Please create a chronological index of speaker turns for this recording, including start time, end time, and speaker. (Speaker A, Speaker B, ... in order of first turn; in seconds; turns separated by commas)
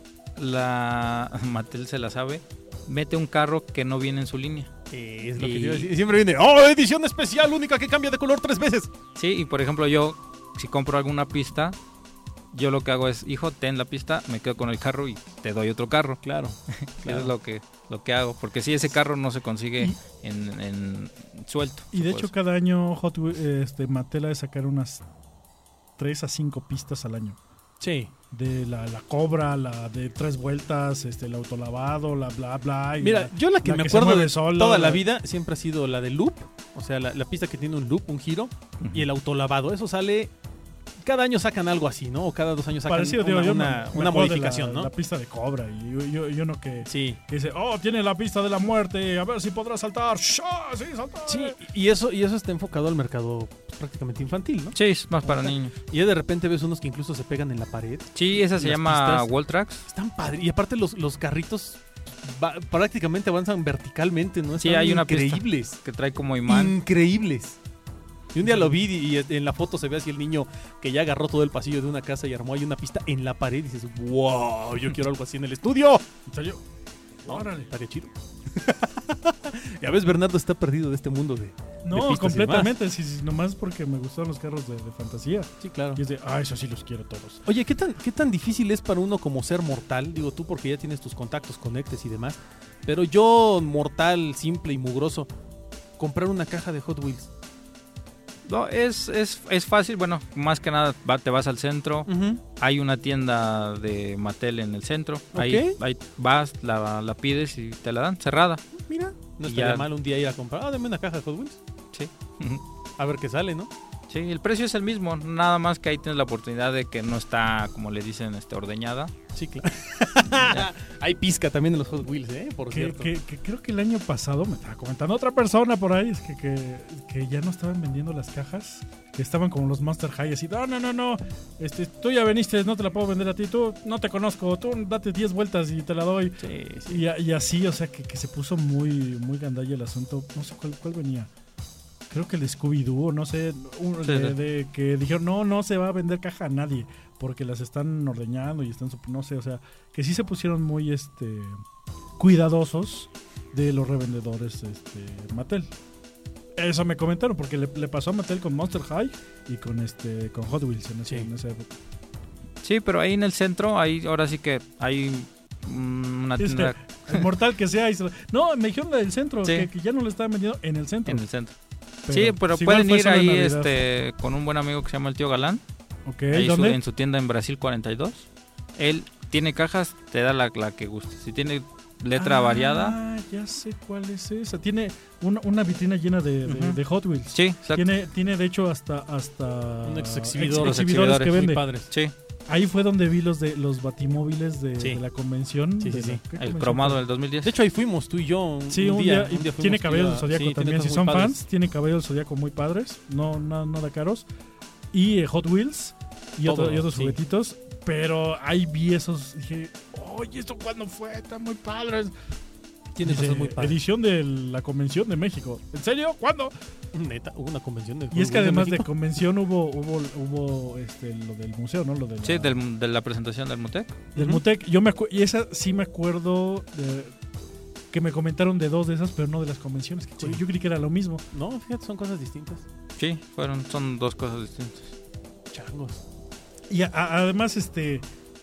Speaker A: 0.4-4.7, Speaker B: 4.9-8.9, Speaker A: 5.4-5.9, Speaker A: 9.2-11.8, Speaker A: 12.5-22.3, Speaker B: 16.2-17.3, Speaker C: 21.9-25.0, Speaker C: 26.0-27.4, Speaker B: 27.8-28.1, Speaker C: 28.3-35.0, Speaker B: 33.0-40.3, Speaker B: 41.0-44.9, Speaker C: 42.9-51.6, Speaker B: 46.9-47.2, Speaker B: 51.3-59.3, Speaker A: 54.7-55.7, Speaker A: 58.1-59.9, Speaker B: 59.9-65.8, Speaker A: 64.6-66.8, Speaker B: 66.5-67.6, Speaker B: 68.3-76.0, Speaker C: 76.3-76.6, Speaker C: 77.2-77.7, Speaker B: 77.3-82.7, Speaker C: 81.8-87.5, Speaker B: 85.6-86.0, Speaker B: 87.5-95.3, Speaker B: 96.0-97.3, Speaker A: 98.5-108.6, Speaker B: 102.1-102.4, Speaker B: 105.3-105.8, Speaker B: 108.8-111.6, Speaker A: 109.4-109.9, Speaker A: 111.9-112.6, Speaker B: 113.0-113.7, Speaker A: 114.1-119.1, Speaker B: 119.3-123.1, Speaker C: 122.7-141.3, Speaker B: 136.4-137.1, Speaker C: 142.1-151.6, Speaker A: 144.0-144.4, Speaker C: 152.2-155.7, Speaker C: 156.6-161.7, Speaker A: 162.6-167.3, Speaker C: 166.4-171.2, Speaker A: 169.4-169.7, Speaker A: 171.1-171.5, Speaker C: 172.1-173.8, Speaker A: 172.1-175.6, Speaker C: 176.1-176.8, Speaker A: 176.3-183.0, Speaker C: 182.2-191.6, Speaker A: 186.5-186.8, Speaker A: 187.3-187.9, Speaker B: 189.8-191.9, Speaker A: 190.5-192.1, Speaker C: 192.5-197.0, Speaker B: 195.8-196.2, Speaker A: 196.4-197.6, Speaker B: 197.4-201.4, Speaker C: 198.7-204.3, Speaker C: 204.9-212.1, Speaker B: 206.4-207.2, Speaker B: 212.9-213.8, Speaker C: 213.0-216.5, Speaker B: 216.9-218.9, Speaker C: 218.1-222.6, Speaker A: 222.2-224.1, Speaker B: 224.2-224.4, Speaker C: 224.2-227.2, Speaker C: 227.9-231.2, Speaker B: 231.3-232.7, Speaker A: 233.0-234.9, Speaker B: 235.5-236.0, Speaker C: 236.7-238.1